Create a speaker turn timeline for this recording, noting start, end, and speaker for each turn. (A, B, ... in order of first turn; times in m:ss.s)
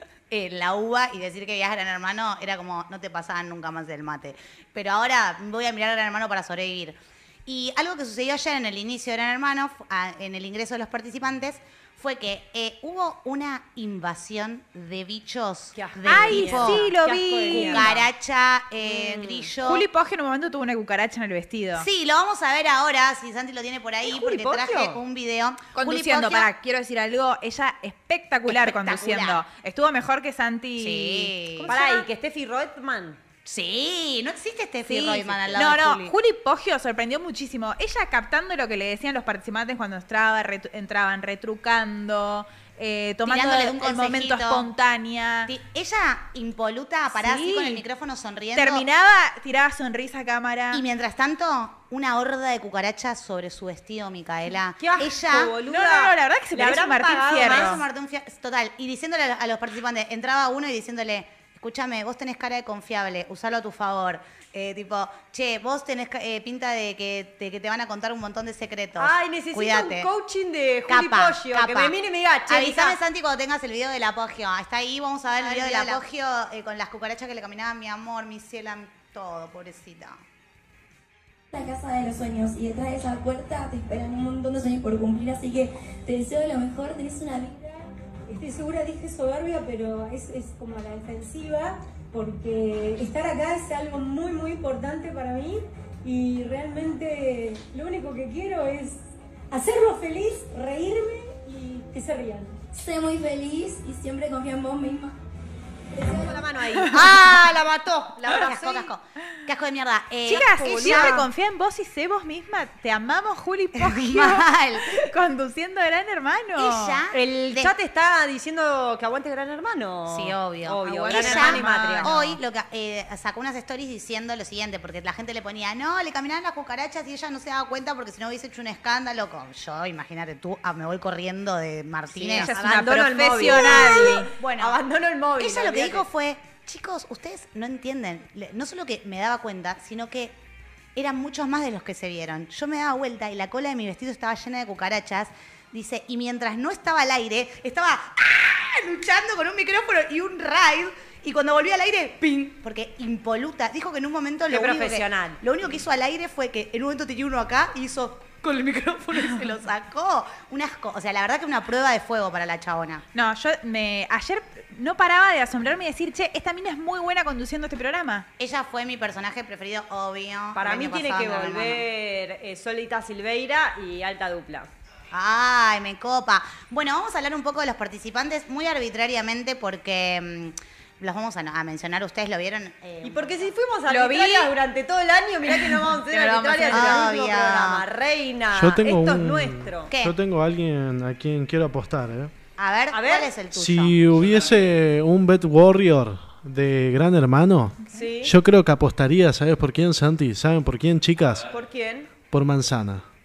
0:00.3-0:16.8 A
0:15.7-0:18.1 B
0:16.0-0:17.9 C
0:17.5-0:19.8 A
0:18.8-0:19.5 B
0:19.6-0:21.9 C
0:21.7-0:26.5 A
0:24.0-0:25.0 B
0:25.7-0:32.0 C
0:28.4-0:29.4 A
0:30.8-0:31.7 A
0:31.7-0:33.2 B
0:33.4-0:36.1 A
0:34.9-0:45.5 C
0:43.2-0:44.7 A
0:45.5-0:48.8 A
0:47.1-0:47.8 C
0:48.5-0:50.8 C
0:50.7-0:55.5 A
0:54.8-0:57.8 B
0:55.6-0:57.8 C
0:57.3-1:10.1 A
1:09.0-1:13.0 B
1:10.9-1:12.0 A
1:12.5-1:20.2 A
1:15.4-1:16.0 B
1:21.5-1:27.5 D
1:27.5-1:42.7 E
1:42.7-1:45.2 D
1:46.0-1:46.4 E
1:46.2-1:48.9 B
1:46.8-1:47.2 C
1:48.2-1:51.2 A
1:50.3-1:57.0 C
1:50.3-1:51.3 B
1:53.7-1:55.0 A
1:56.6-1:57.7 A
1:57.1-2:02.2 B
2:00.1-2:12.5 A
2:00.8-2:02.4 C
2:12.1-2:14.3 C
2:12.4-2:16.0 B
2:14.4-2:14.8 A
2:15.4-2:20.3 A
2:21.0-2:43.0 A
2:34.5-2:35.4 B
2:43.1-2:48.2 C
2:48.4-2:51.8 A
2:50.5-2:54.7 B
2:55.1-3:03.5 A
3:03.0-3:09.9 B
3:03.9-3:04.5 C
3:06.1-3:07.8 A
3:06.3-3:07.0 C
3:08.5-3:12.3 F
3:09.9-3:10.1 A
3:12.6-3:14.0 A
3:12.9-3:13.3 B
3:13.5-3:21.4 F
3:17.9-3:18.3 B
3:21.5-3:22.1 B
3:22.3-3:23.0 F